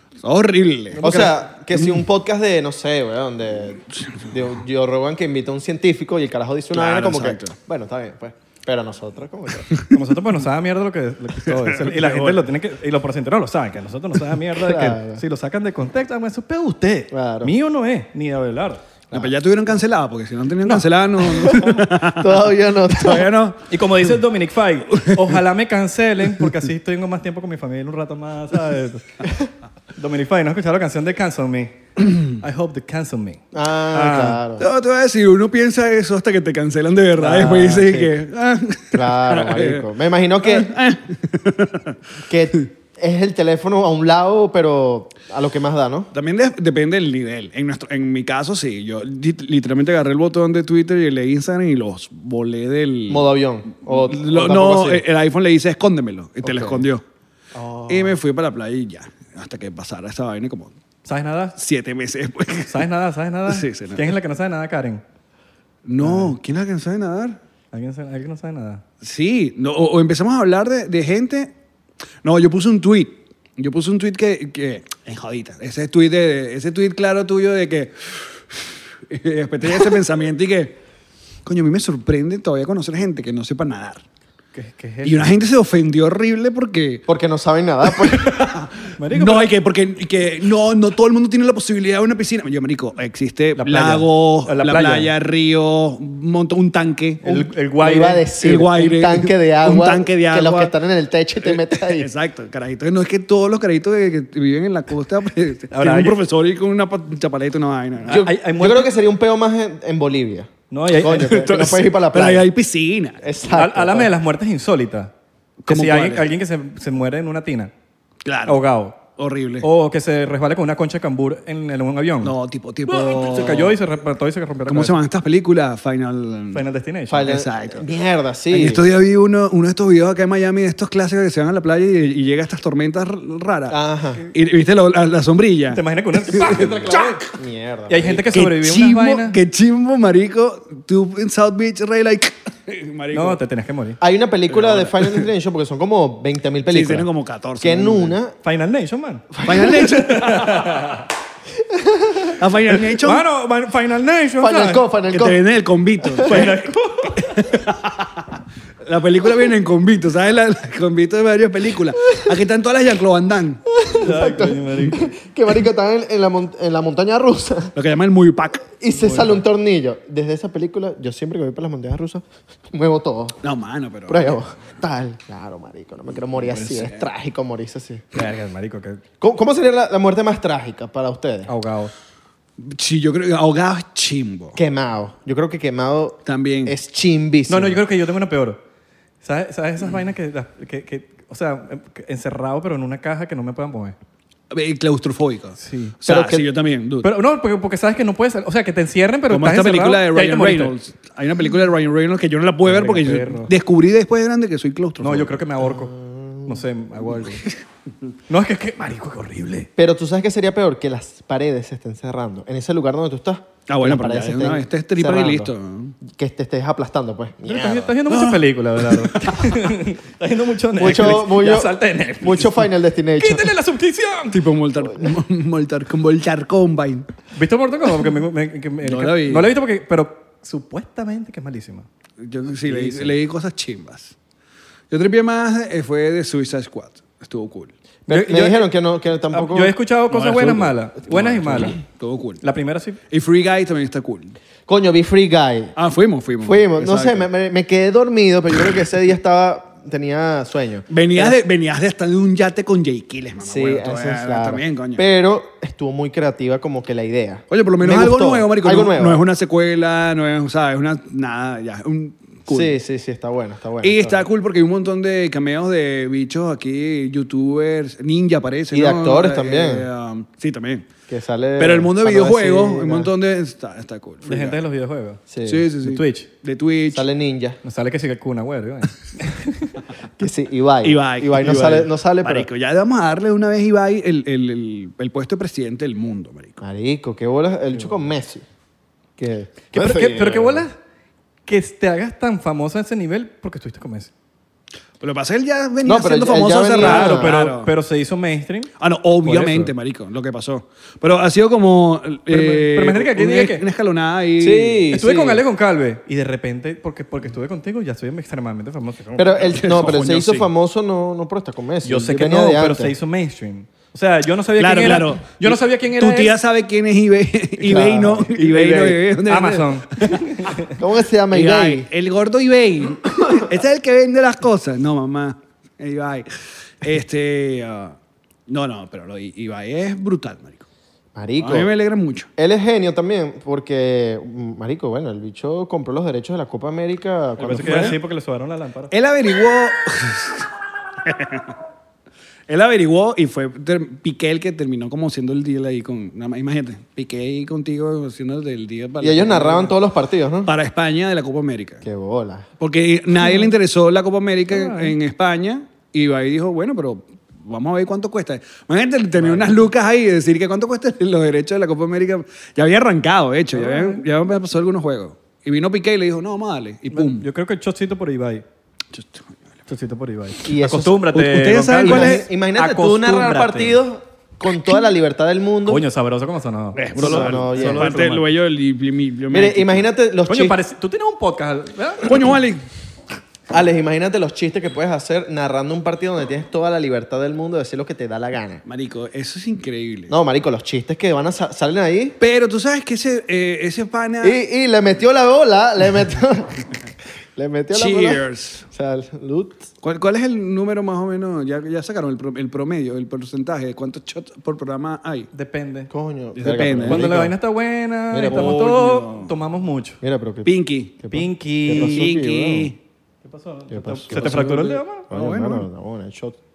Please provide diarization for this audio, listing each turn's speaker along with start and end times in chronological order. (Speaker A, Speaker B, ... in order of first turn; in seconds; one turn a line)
Speaker A: 0.2-1.1
Speaker B: 0.9-1.4
Speaker C: 1.0-9.7
Speaker A: 4.0-4.3
Speaker A: 6.7-7.6
Speaker B: 9.8-18.8
Speaker A: 11.4-12.4
Speaker C: 14.5-15.2
Speaker C: 17.1-17.5
Speaker A: 19.1-24.1
Speaker C: 21.3-23.3
Speaker B: 23.7-29.4
Speaker A: 24.9-25.4
Speaker B: 29.9-33.4
Speaker C: 33.5-34.7
Speaker B: 33.9-34.4
Speaker A: 34.6-39.9
Speaker C: 37.2-38.1
Speaker C: 38.9-40.7
Speaker A: 40.4-42.0
Speaker C: 42.2-46.1
Speaker A: 46.1-57.0
Speaker C: 53.1-55.0
Speaker C: 56.4-56.8
Speaker C: 57.5-58.2
Speaker A: 57.9-60.7
Speaker B: 61.0-61.5
Speaker A: 61.5-62.8
Speaker B: 62.7-65.0
Speaker A: 63.5-64.1
Speaker A: 65.8-67.4
Speaker B: 66.0-66.3
Speaker B: 67.7-68.8
Speaker A: 69.0-71.5
Speaker A: 72.2-80.8
Speaker A: 81.4-84.0
Speaker B: 84.5-85.3
Speaker A: 85.0-87.0
Speaker C: 87.1-88.5
Speaker A: 87.9-97.2
Speaker B: 89.0-89.5
Speaker B: 93.6-95.1
Speaker B: 97.2-98.2
Speaker C: 97.2-102.1
Speaker A: 98.4-100.7
Speaker A: 101.4-108.2
Speaker B: 105.7-106.2
Speaker B: 108.1-108.9
Speaker C: 108.1-112.5
Speaker B: 110.7-111.9
Speaker A: 111.3-113.2
Speaker C: 113.2-114.1
Speaker B: 113.5-115.1
Speaker A: 115.6-116.3
Speaker B: 115.7-117.7
Speaker A: 118.2-118.6
Speaker B: 118.5-119.0
Speaker A: 119.2-119.7
Speaker B: 119.6-122.3
Speaker A: 122.2-123.8
Speaker B: 122.9-124.9
Speaker A: 124.7-126.6
Speaker B: 126.5-127.3
Speaker C: 127.1-128.8
Speaker A: 127.2-127.8
Speaker A: 128.5-137.3
Speaker C: 133.7-134.2
Speaker B: 135.7-137.2
Speaker C: 136.5-138.2
Speaker B: 137.9-139.4
Speaker A: 138.2-143.4
Speaker B: 143.1-144.0
Speaker C: 144.0-147.1
Speaker A: 144.5-145.3
Speaker A: 146.7-148.2
Speaker C: 147.6-148.3
Speaker B: 148.4-151.1
Speaker A: 149.4-150.9
Speaker C: 149.5-149.7
Speaker C: 151.6-152.4
Speaker A: 152.4-153.2
Speaker B: 152.9-154.9
Speaker C: 154.4-155.4
Speaker A: 155.1-163.7
Speaker C: 156.2-156.4
Speaker B: 156.2-157.5
Speaker C: 163.7-167.7
Speaker B: 163.9-165.1
Speaker A: 167.7-169.3
Speaker C: 168.8-173.4
Speaker A: 173.4-174.4
Speaker C: 174.1-178.1
Speaker A: 176.5-177.0
Speaker B: 178.1-179.0
Speaker C: 179.2-181.5
Speaker B: 181.5-181.9
Speaker A: 182.6-184.6
Speaker C: 184.5-187.8
Speaker A: 186.2-186.7
Speaker B: 187.5-188.6
Speaker B: 189.2-193.9
Speaker A: 194.5-197.1
Speaker B: 195.6-196.0
Speaker C: 196.1-196.4
Speaker B: 197.0-200.8
Speaker A: 199.3-205.4
Speaker B: 202.6-203.5
Speaker B: 205.0-207.5
Speaker C: 205.6-206.6
Speaker B: 208.3-209.7
Speaker C: 209.8-215.5
Speaker A: 213.7-216.0
Speaker C: 216.0-217.9
Speaker B: 217.4-224.5
Speaker A: 218.1-219.5
Speaker C: 220.8-223.6
Speaker A: 224.3-227.1
Speaker B: 227.3-231.9
Speaker A: 228.8-229.5
Speaker A: 232.2-234.1
Speaker B: 232.6-233.1
Speaker A: 234.9-237.7
Speaker C: 238.1-239.8
Speaker B: 238.1-238.6
Speaker B: 239.3-241.8
Speaker A: 240.1-242.4
Speaker C: 241.2-241.7
Speaker B: 242.4-243.0
Speaker A: 243.1-244.3
Speaker C: 244.7-245.7
Speaker A: 245.8-247.3
Speaker C: 246.4-251.3
Speaker A: 250.9-255.0
Speaker C: 253.4-259.2
Speaker A: 257.5-262.8
Speaker C: 262.5-264.2
Speaker A: 263.8-270.9
Speaker C: 268.7-269.9
Speaker C: 271.1-273.1
Speaker A: 271.6-274.6
Speaker B: 274.2-275.2
Speaker C: 275.3-275.7
Speaker A: 275.4-277.1
Speaker B: 275.8-276.3
Speaker C: 276.9-277.6
Speaker B: 277.6-279.7
Speaker C: 280.2-282.5
Speaker A: 280.8-286.6
Speaker C: 286.6-288.4
Speaker B: 287.7-288.0
Speaker C: 289.2-290.6
Speaker B: 289.7-290.7
Speaker B: 291.4-294.1
Speaker A: 295.0-297.7
Speaker C: 295.8-297.4
Speaker B: 296.8-298.7
Speaker A: 298.8-304.9
Speaker B: 299.2-299.7
Speaker B: 302.3-303.6
Speaker C: 304.4-305.4
Speaker B: 304.9-309.4
Speaker C: 309.1-312.9
Speaker A: 309.4-310.5
Speaker B: 311.8-316.4
Speaker A: 314.6-320.6
Speaker C: 317.6-318.3
Speaker B: 318.2-320.8
Speaker C: 320.7-321.9
Speaker A: 321.3-326.3
Speaker A: 326.8-328.0
Speaker A: 328.5-330.6
Speaker C: 331.1-331.7
Speaker A: 331.4-332.3
Speaker C: 332.4-338.0
Speaker B: 337.4-338.9
Speaker A: 338.9-340.5
Speaker A: 341.0-341.6
Speaker A: 342.5-349.8
Speaker C: 349.0-350.5
Speaker A: 350.4-351.8
Speaker C: 351.8-352.5
Speaker A: 352.6-367.3
Speaker B: 354.5-354.9
Speaker B: 359.2-359.5
Speaker B: 363.5-364.0
Speaker B: 366.9-368.4
Speaker A: 368.9-369.5
Speaker B: 369.7-373.8
Speaker C: 370.4-371.0
Speaker A: 371.1-372.2
Speaker C: 371.7-375.8
Speaker B: 375.6-378.3
Speaker A: 376.7-379.9
Speaker C: 377.0-377.9
Speaker C: 379.3-380.6
Speaker B: 380.3-382.3
Speaker A: 382.0-382.6
Speaker C: 383.5-388.6
Speaker A: 388.6-390.1
Speaker C: 390.1-392.1
Speaker A: 392.2-394.4
Speaker C: 394.2-396.6
Speaker C: 397.4-399.7
Speaker A: 397.7-398.6
Speaker A: 399.8-405.3
Speaker B: 405.3-405.9
Speaker C: 405.9-407.3
Speaker A: 406.3-407.1
Speaker B: 406.8-410.0
Speaker C: 408.1-408.6
Speaker A: 408.2-409.3
Speaker C: 410.0-412.7
Speaker A: 410.4-410.9
Speaker B: 411.1-412.1
Speaker A: 411.7-412.8
Speaker B: 413.2-415.0
Speaker C: 413.7-416.4
Speaker A: 414.1-415.7